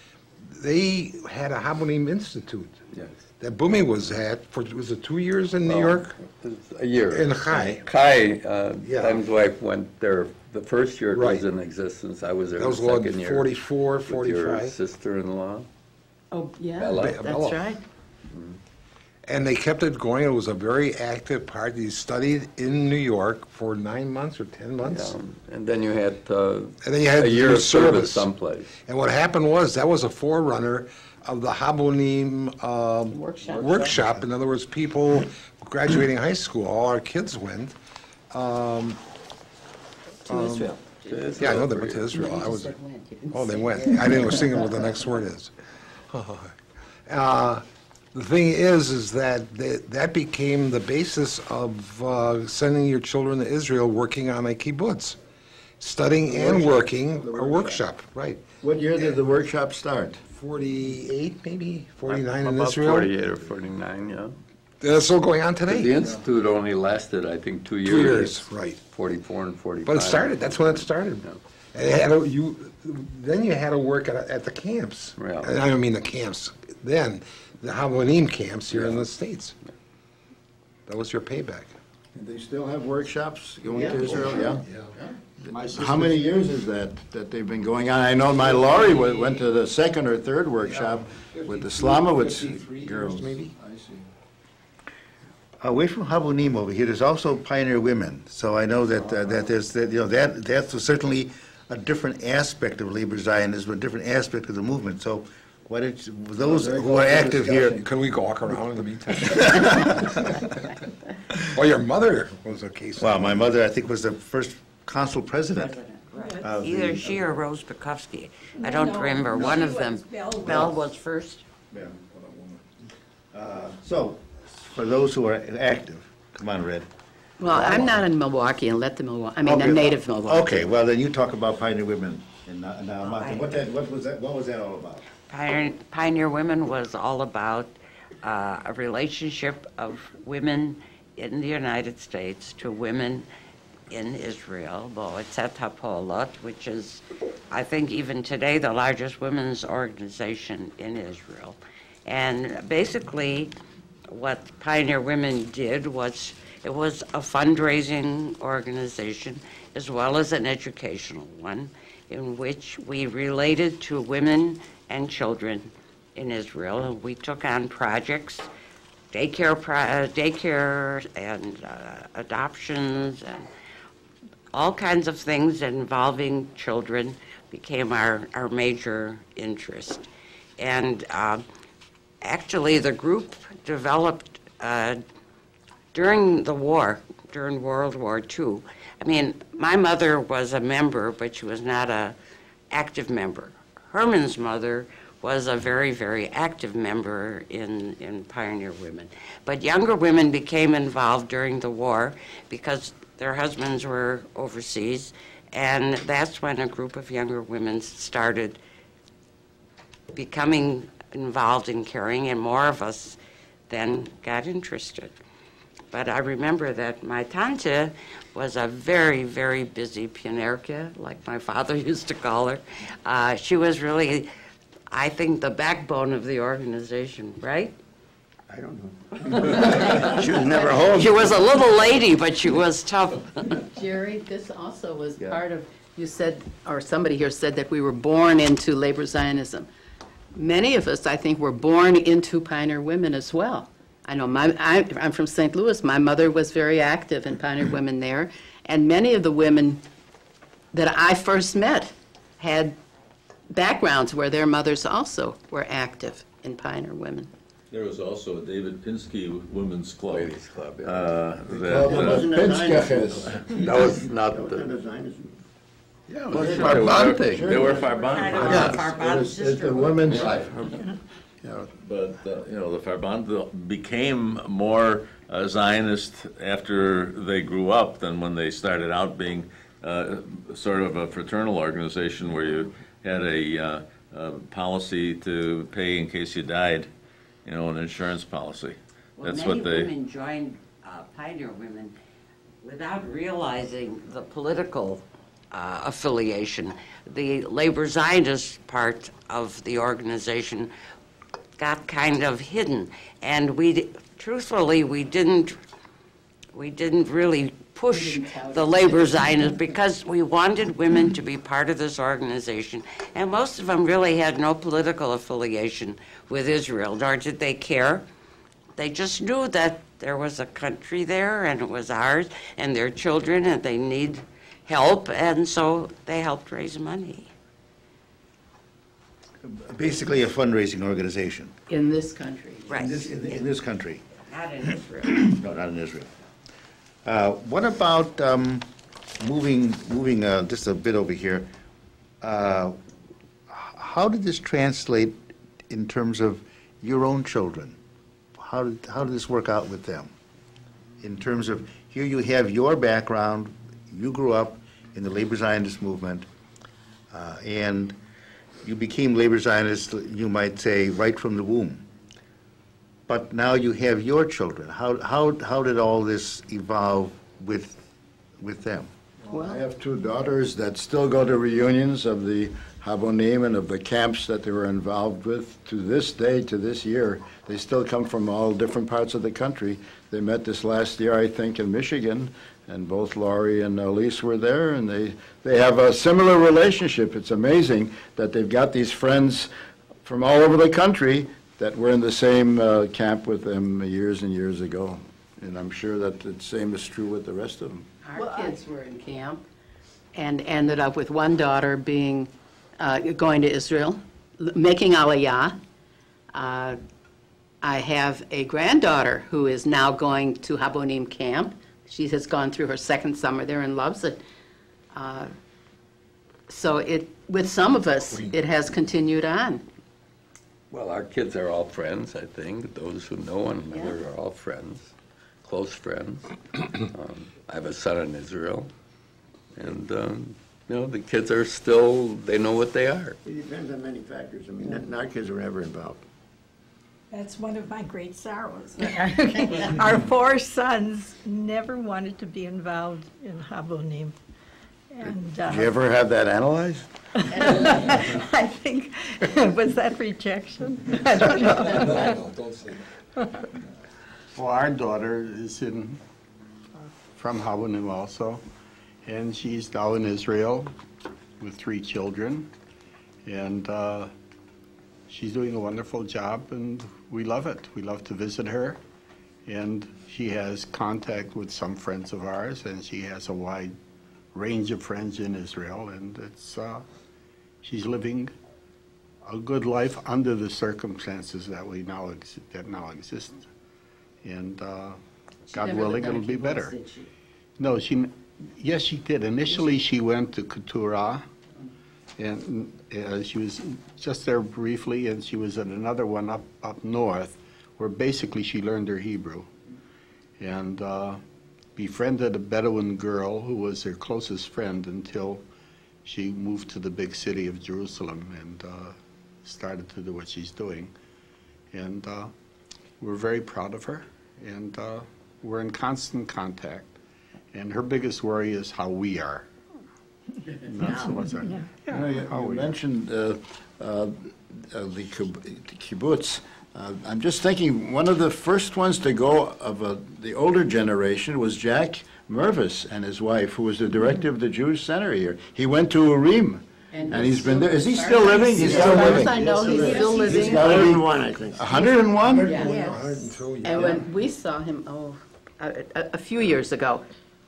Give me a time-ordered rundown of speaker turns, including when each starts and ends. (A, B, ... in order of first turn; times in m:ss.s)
0:00.4-0:02.8 A
0:03.4-0:06.2 A
0:05.6-0:15.7 B
0:07.1-0:07.8 A
0:08.8-0:09.2 A
0:11.1-0:11.5 A
0:12.6-0:14.8 A
0:16.3-0:17.8 C
0:16.8-0:17.2 B
0:16.8-0:17.7 A
0:18.3-0:18.6 B
0:19.3-0:25.2 A
0:24.8-0:28.7 B
0:26.8-0:37.8 A
0:33.1-0:34.1 C
0:38.3-0:39.0 A
0:40.3-0:40.7 A
0:40.3-0:40.7 C
0:41.0-0:42.2 B
0:41.4-0:42.8 A
0:42.1-0:44.3 C
0:43.3-0:45.5 A
0:46.1-0:46.6 A
0:47.1-0:55.2 A
0:55.8-0:58.4 A
0:56.3-0:57.8 D
0:58.6-1:00.2 D
1:00.3-1:03.1 A
1:02.0-1:04.4 B
1:04.8-1:06.2 A
1:05.6-1:11.4 B
1:07.8-1:08.8 A
1:09.8-1:19.6 A
1:15.2-1:15.6 B
1:18.7-1:19.1 B
1:20.9-1:21.7 A
1:22.2-1:34.1 D
1:23.7-1:24.5 C
1:24.1-1:24.9 A
1:25.5-1:26.3 E
1:28.6-1:29.2 A
1:30.6-1:33.5 A
1:35.6-1:47.9 F
1:46.4-1:47.8 D
1:47.6-1:50.8 A
1:51.3-1:53.5 A
1:53.0-1:55.8 F
1:55.6-2:01.4 G
1:56.2-1:56.5 H
1:56.4-1:57.2 F
1:58.6-2:00.8 H
2:01.8-2:02.6 D
2:03.3-2:06.9 F
2:07.4-2:10.7 C
2:07.5-2:08.0 F
2:09.4-2:15.1 F
2:13.0-2:13.6 G
2:15.3-2:23.3 G
2:23.9-2:33.5 G
2:34.1-2:48.5 G
2:49.1-2:53.5 G
2:54.5-3:00.1 G
3:00.6-3:01.4 G
3:02.2-3:05.0 G
3:05.9-3:12.2 G
3:12.7-3:28.6 G
3:30.1-3:35.2 G
3:35.9-3:44.3 G
3:44.9-3:47.8 G
3:48.5-3:51.2 I
3:49.3-3:50.3 G
3:49.8-3:50.8 C
3:50.8-3:53.6 G
3:53.6-3:59.7 C
4:00.4-4:09.8 C
4:10.7-4:12.8 C
4:13.5-4:17.3 C
4:17.7-4:22.3 J
4:20.1-4:21.2 B
4:21.5-4:23.7 D
4:21.8-4:25.4 I
4:23.5-4:24.7 B
4:26.2-4:30.5 D
4:26.2-4:27.9 B
4:26.3-4:28.8 J
4:26.7-4:27.2 A
4:27.7-4:30.3 G
4:28.4-4:28.8 B
4:30.1-4:30.7 B
4:31.4-4:31.7 D
4:31.8-4:46.9 J
4:47.4-4:49.9 J
4:49.2-4:52.0 G
4:52.6-5:00.7 G
5:01.6-5:05.6 G
5:06.5-5:18.1 G
5:07.9-5:09.5 C
5:18.8-5:27.3 G
5:29.4-5:31.6 F
5:31.7-5:32.7 C
5:32.7-5:33.4 G
5:32.7-5:34.0 F
5:34.3-5:35.3 G
5:35.1-5:36.1 F
5:37.0-5:41.5 F
5:42.2-5:42.8 F
5:43.5-5:47.8 F
5:48.4-5:50.1 F
5:51.0-5:56.3 F
5:57.1-5:58.0 F
5:58.6-6:01.8 F
6:03.1-6:07.8 F
6:08.4-6:08.9 F
6:09.3-6:09.6 C
6:09.3-6:29.5 D
6:30.0-6:37.9 D
6:38.0-6:39.4 C
6:38.2-6:38.6 H
6:40.1-6:45.6 C
6:46.3-6:46.8 C
6:47.6-6:54.2 C
6:54.9-6:55.3 C
6:56.5-6:59.6 C
7:00.7-7:08.7 B
7:03.7-7:04.0 C
7:09.6-7:13.2 B
7:13.2-7:16.0 I
7:17.1-7:24.2 H
7:24.9-7:25.7 H
7:25.5-7:26.9 D
7:27.3-7:32.2 H
7:31.3-7:32.8 A
7:34.4-7:36.0 E
7:37.1-7:38.4 E
7:39.0-7:40.7 E
7:41.4-7:42.5 E
7:43.2-7:44.1 E
7:45.1-7:48.8 E
7:49.5-7:53.7 E
7:54.3-7:56.8 E
7:57.6-7:58.3 E
7:59.2-8:03.5 E
8:04.2-8:06.8 E
8:05.5-8:07.1 C
8:07.6-8:11.2 E
8:12.2-8:19.5 E
8:20.4-8:21.2 E
8:21.8-8:25.4 E
8:26.0-8:30.9 E
8:31.7-8:32.3 E
8:33.0-8:37.0 E
8:37.5-8:39.5 E
8:40.6-8:42.8 E
8:41.4-8:41.7 H
8:41.9-9:02.7 D
8:56.9-9:01.0 C
8:58.3-9:00.3 E
8:58.5-8:59.5 A
8:58.7-9:02.9 I
8:59.7-9:00.0 H
9:02.4-9:02.8 C
9:02.6-9:03.3 H
9:02.7-9:04.0 A
9:03.6-9:07.1 C